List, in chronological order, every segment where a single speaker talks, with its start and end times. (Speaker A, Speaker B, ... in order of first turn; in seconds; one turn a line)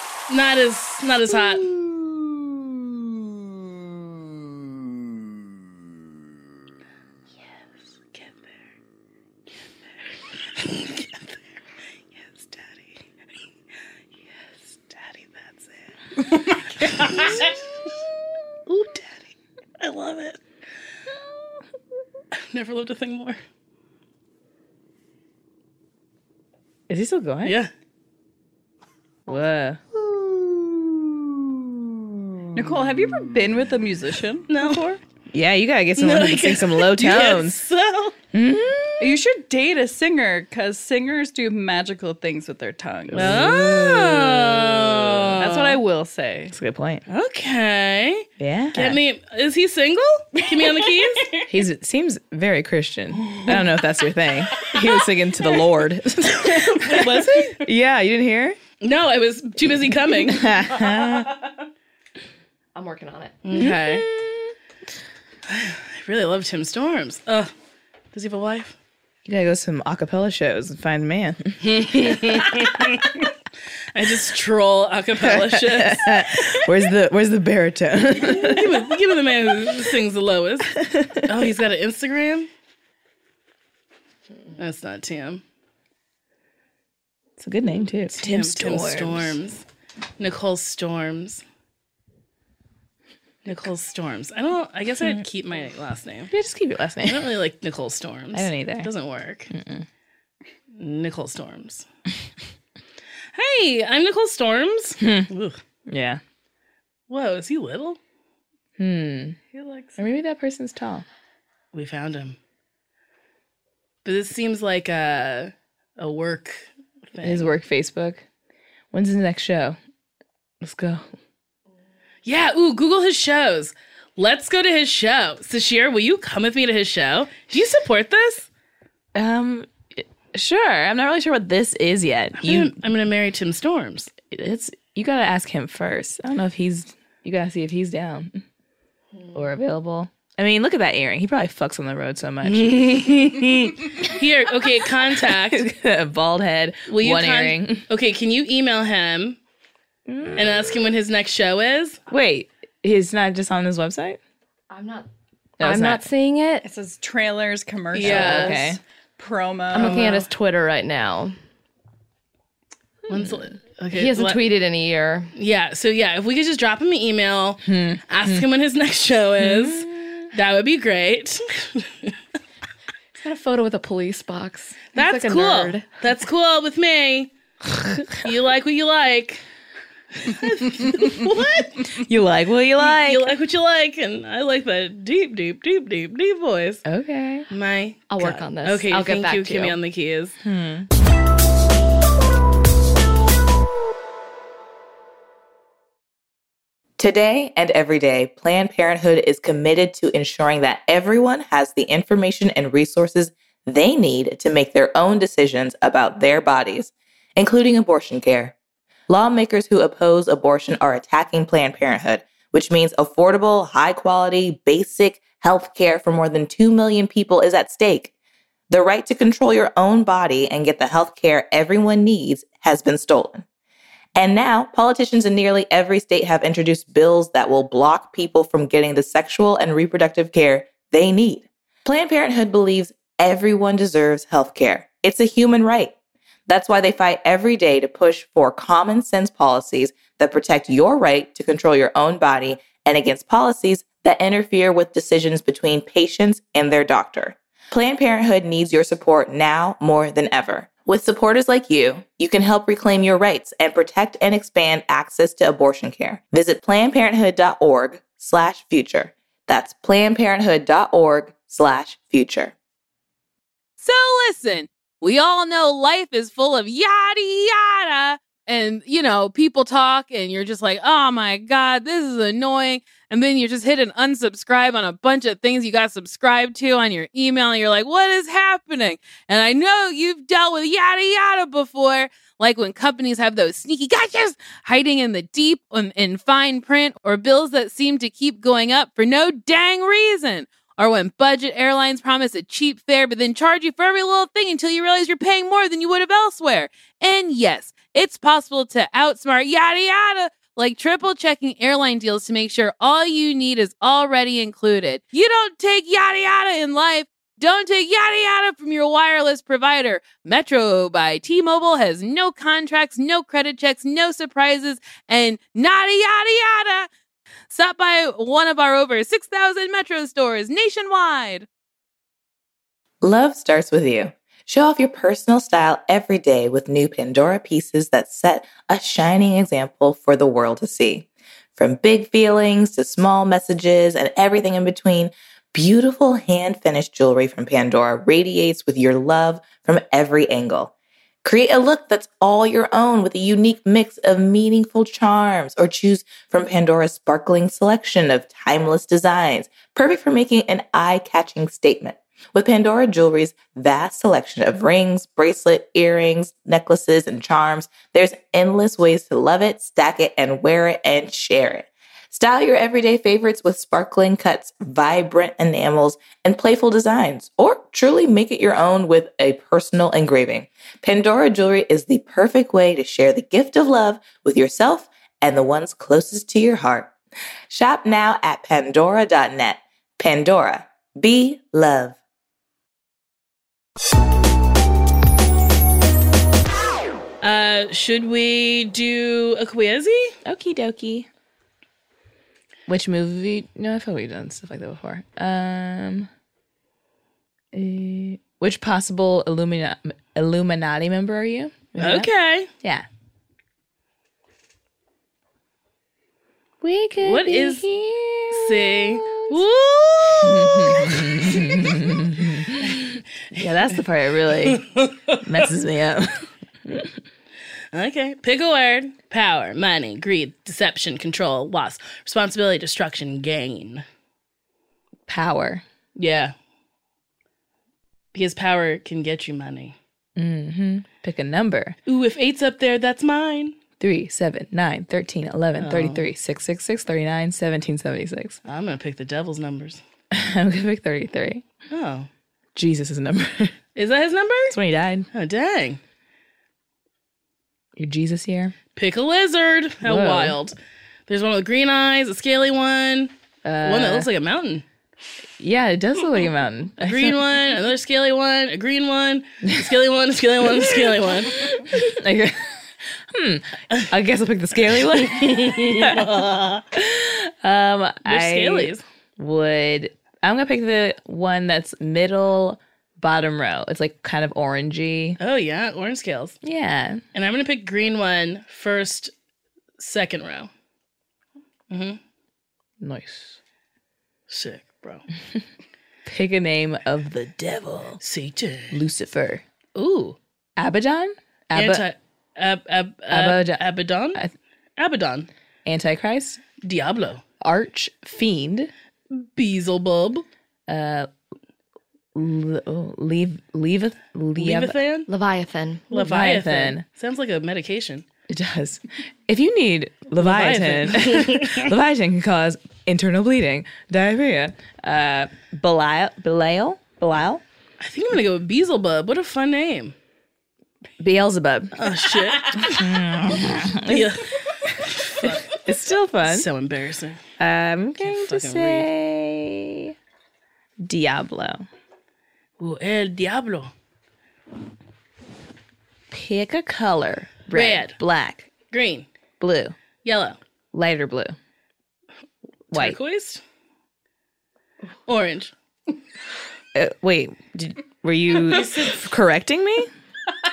Speaker A: 0.3-1.7
Speaker B: 1.6-2.3
Speaker A: 8.1-8.6
Speaker A: 10.6-11.3
Speaker A: 16.5-17.6
Speaker B: 17.1-17.4
Speaker A: 18.7-19.0
Speaker A: 19.8-20.4
Speaker A: 22.5-23.4
Speaker B: 26.9-27.6
Speaker A: 27.4-27.7
Speaker B: 29.3-32.6
Speaker C: 32.5-34.8
Speaker A: 34.5-35.0
Speaker B: 35.3-37.6
Speaker A: 36.0-38.1
Speaker B: 38.3-39.2
Speaker C: 39.0-43.5
Speaker B: 43.1-45.0
Speaker A: 43.1-45.8
Speaker C: 45.3-46.5
Speaker B: 46.5-47.0
Speaker A: 47.1-51.5
Speaker B: 48.4-49.0
Speaker B: 51.5-58.6
Speaker A: 53.3-53.7
Speaker A: 54.6-55.6
Speaker A: 56.2-57.7
Speaker A: 58.8-61.5
Speaker B: 60.1-61.3
Speaker D: 62.7-63.6
Speaker A: 63.4-64.1
Speaker B: 63.5-64.5
Speaker A: 65.5-67.5
Speaker A: 68.1-68.8
Speaker B: 69.2-72.7
Speaker A: 71.6-73.2
Speaker A: 73.9-76.7
Speaker B: 75.2-78.8
Speaker A: 78.2-82.5
Speaker B: 80.8-81.5
Speaker A: 84.6-85.4
Speaker B: 87.4-89.3
Speaker A: 88.1-89.6
Speaker A: 90.2-91.4
Speaker A: 93.4-96.3
Speaker B: 96.3-97.3
Speaker A: 97.0-99.5
Speaker B: 98.3-98.9
Speaker B: 99.5-99.8
Speaker A: 100.8-101.8
Speaker A: 103.3-105.6
Speaker B: 105.0-105.3
Speaker B: 105.9-106.2
Speaker A: 107.1-108.0
Speaker B: 108.8-109.4
Speaker A: 109.5-110.0
Speaker B: 110.0-111.0
Speaker A: 111.7-112.4
Speaker A: 114.0-117.5
Speaker B: 117.2-118.2
Speaker B: 118.9-119.8
Speaker B: 120.6-121.0
Speaker A: 122.2-128.5
Speaker B: 129.1-132.7
Speaker A: 132.4-134.1
Speaker B: 134.3-138.4
Speaker B: 139.3-143.3
Speaker A: 142.4-145.7
Speaker B: 145.1-147.8
Speaker A: 146.9-149.4
Speaker B: 150.1-150.8
Speaker A: 150.3-152.0
Speaker B: 152.1-154.2
Speaker D: 154.7-155.1
Speaker B: 155.6-156.0
Speaker D: 155.6-156.7
Speaker C: 156.6-160.2
Speaker A: 157.9-158.7
Speaker B: 157.9-158.8
Speaker D: 159.7-161.3
Speaker A: 159.7-160.2
Speaker A: 163.1-164.4
Speaker D: 163.9-165.3
Speaker A: 165.3-172.1
Speaker B: 167.6-168.4
Speaker B: 169.4-170.2
Speaker D: 173.2-175.8
Speaker A: 174.9-177.3
Speaker A: 178.2-179.4
Speaker A: 180.1-181.9
Speaker B: 181.9-183.3
Speaker A: 182.8-186.8
Speaker B: 186.8-187.5
Speaker A: 187.5-190.3
Speaker D: 188.1-189.8
Speaker B: 190.4-190.9
Speaker E: 197.0-208.5
Speaker E: 209.1-218.1
Speaker E: 218.7-223.4
Speaker E: 224.2-235.9
Speaker E: 236.5-262.5
Speaker F: 263.8-316.9
Speaker F: 317.5-321.5
Speaker E: 323.0-340.7
Speaker E: 341.2-376.9
Speaker E: 377.5-382.0
Speaker A: 387.2-390.1
Speaker B: 390.2-391.1
Speaker B: 392.7-396.1
Speaker B: 397.5-402.1
Speaker A: 401.8-402.5
Speaker B: 406.6-409.4
Speaker A: 407.0-407.6
Speaker A: 408.3-411.9
Speaker B: 410.2-416.9
Speaker A: 412.6-413.4
Speaker A: 414.4-415.5
Speaker A: 417.7-423.8
Speaker B: 425.1-425.6
Speaker A: 425.9-426.3
Speaker A: 428.1-429.8
Speaker B: 430.1-431.8
Speaker A: 431.9-433.6
Speaker B: 433.8-438.4
Speaker A: 435.6-436.1
Speaker A: 438.4-439.8
Speaker B: 440.1-441.4
Speaker A: 441.7-442.1
Speaker B: 442.5-443.5
Speaker A: 443.8-444.6
Speaker B: 444.5-445.1
Speaker A: 445.1-445.8
Speaker B: 447.8-448.5
Speaker A: 448.8-450.6
Speaker B: 449.8-450.4
Speaker A: 451.1-454.6
Speaker B: 453.4-454.1
Speaker B: 455.4-457.2
Speaker A: 456.8-461.4
Speaker B: 460.4-466.1
Speaker A: 464.9-466.7
Speaker B: 466.7-475.2
Speaker A: 468.0-468.8
Speaker A: 475.2-476.4
Speaker B: 476.4-477.0
Speaker A: 477.1-479.1
Speaker A: 479.8-480.5
Speaker A: 481.7-482.0
Speaker B: 482.8-483.4
Speaker A: 484.3-485.0
Speaker B: 486.0-488.0
Speaker A: 488.0-488.8
Speaker B: 488.7-489.4
Speaker A: 489.8-490.1
Speaker B: 490.6-491.8
Speaker A: 491.5-494.2
Speaker B: 493.1-493.6
Speaker A: 494.8-495.3
Speaker B: 495.6-496.4
Speaker A: 496.6-497.2
Speaker B: 497.4-498.7
Speaker A: 499.1-500.2
Speaker B: 500.7-501.1
Speaker B: 502.1-504.8
Speaker A: 504.4-505.1
Speaker D: 505.1-505.9
Speaker B: 505.9-506.8
Speaker A: 505.9-508.0
Speaker B: 508.3-517.4
Speaker A: 510.2-511.7
Speaker A: 517.8-519.9
Speaker B: 521.0-521.9
Speaker A: 521.8-525.6
Speaker B: 522.5-524.1
Speaker B: 525.2-526.5
Speaker A: 526.2-527.2
Speaker B: 527.4-529.9
Speaker A: 528.0-528.9
Speaker B: 530.8-531.7
Speaker A: 532.6-533.7
Speaker B: 536.1-538.5
Speaker A: 537.5-538.0
Speaker A: 538.7-539.0
Speaker B: 539.4-539.8
Speaker A: 540.0-540.4
Speaker B: 540.7-541.4
Speaker A: 542.7-543.4
Speaker B: 542.7-543.0
Speaker A: 545.1-545.5
Speaker B: 546.7-549.9